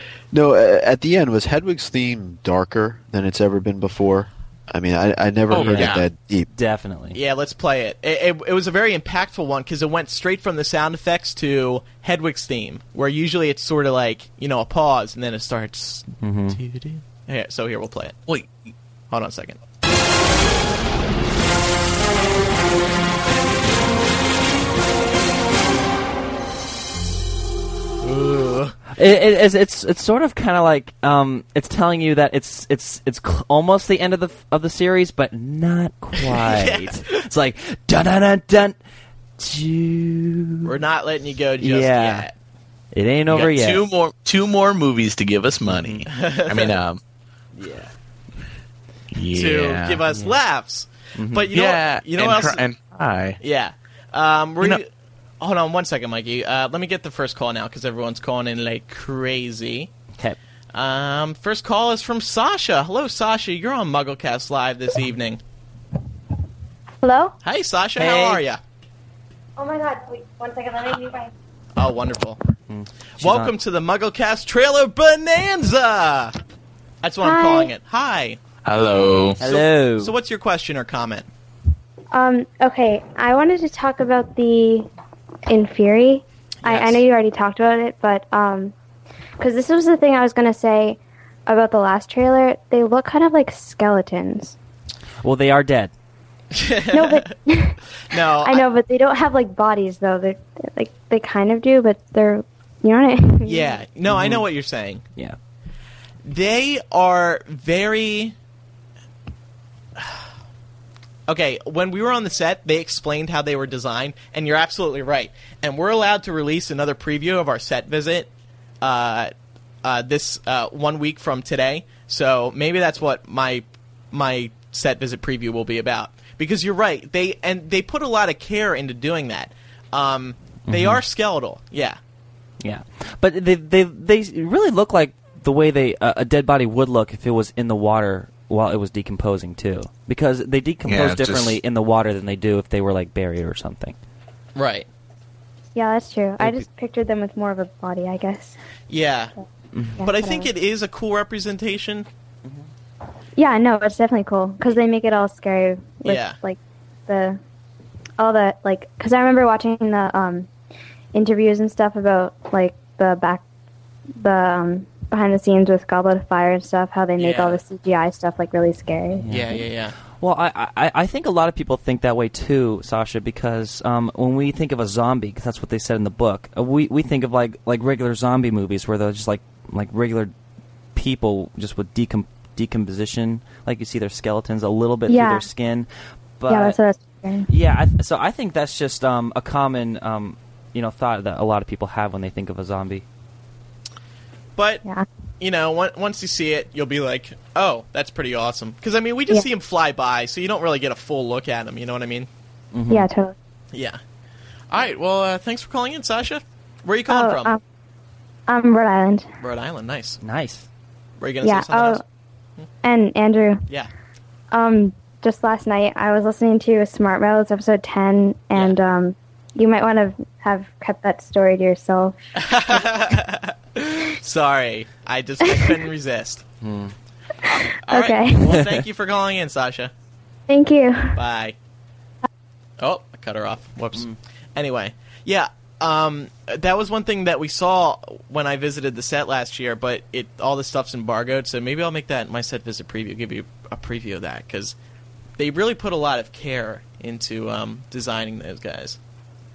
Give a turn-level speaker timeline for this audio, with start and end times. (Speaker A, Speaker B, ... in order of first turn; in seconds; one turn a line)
Speaker A: 0.3-6.5
Speaker B: 5.5-6.0
Speaker C: 5.6-6.0
Speaker C: 6.5-7.2
Speaker D: 7.1-18.2
Speaker C: 16.2-16.6
Speaker D: 19.1-19.6
Speaker D: 28.0-28.8
Speaker C: 28.9-38.8
Speaker D: 36.3-37.0
Speaker C: 39.4-40.7
Speaker D: 40.6-42.3
Speaker C: 41.6-42.3
Speaker C: 42.9-43.8
Speaker B: 43.3-47.0
Speaker C: 45.7-46.0
Speaker D: 46.1-46.8
Speaker C: 47.6-47.9
Speaker B: 49.1-50.0
Speaker D: 49.3-52.6
Speaker C: 50.1-50.4
Speaker C: 51.1-51.5
Speaker B: 51.5-53.4
Speaker D: 53.4-54.9
Speaker D: 55.4-59.9
Speaker D: 60.7-65.4
Speaker E: 67.0-67.3
Speaker D: 67.4-68.6
Speaker C: 68.0-68.4
Speaker E: 69.6-71.3
Speaker D: 71.8-72.4
Speaker C: 72.7-73.5
Speaker D: 73.2-76.3
Speaker D: 77.0-78.4
Speaker E: 77.2-77.7
Speaker B: 78.6-79.4
Speaker C: 79.4-80.1
Speaker D: 79.4-81.3
Speaker E: 82.1-84.9
Speaker E: 85.5-88.7
Speaker D: 86.6-87.0
Speaker E: 89.4-94.5
Speaker C: 95.2-95.9
Speaker D: 96.5-97.3
Speaker E: 96.9-97.8
Speaker D: 98.1-98.6
Speaker E: 98.4-103.8
Speaker D: 103.4-105.0
Speaker C: 104.1-104.4
Speaker D: 106.2-108.3
Speaker D: 110.0-110.2
Speaker D: 111.3-118.3
Speaker D: 118.8-119.3
Speaker D: 119.8-132.0
Speaker C: 130.7-131.0
Speaker C: 132.6-143.9
Speaker B: 140.9-141.6
Speaker D: 144.5-144.9
Speaker E: 145.7-148.6
Speaker C: 146.4-146.6
Speaker D: 148.9-149.3
Speaker C: 149.7-150.0
Speaker E: 150.0-150.5
Speaker D: 150.0-152.1
Speaker E: 153.4-157.4
Speaker D: 156.0-156.4
Speaker E: 158.2-160.5
Speaker E: 161.1-163.4
Speaker E: 164.2-169.2
Speaker D: 167.2-167.6
Speaker C: 169.2-180.3
Speaker D: 169.3-169.9
Speaker C: 180.9-185.9
Speaker E: 185.1-185.5
Speaker C: 186.4-186.8
Speaker E: 186.5-187.5
Speaker C: 187.5-193.0
Speaker D: 194.6-194.8
Speaker D: 195.4-202.3
Speaker C: 202.7-203.1
Speaker E: 202.9-203.3
Speaker D: 203.7-204.0
Speaker D: 204.7-207.5
Speaker E: 207.1-207.6
Speaker E: 208.5-209.3
Speaker D: 209.4-210.2
Speaker C: 210.2-210.7
Speaker D: 211.2-212.0
Speaker E: 211.4-212.0
Speaker E: 212.8-213.6
Speaker E: 214.5-222.2
Speaker D: 222.3-226.4
Speaker C: 226.6-226.9
Speaker D: 227.4-229.9
Speaker E: 227.9-228.6
Speaker E: 230.5-231.2
Speaker D: 231.2-231.6
Speaker D: 232.8-244.7
Speaker D: 245.4-249.0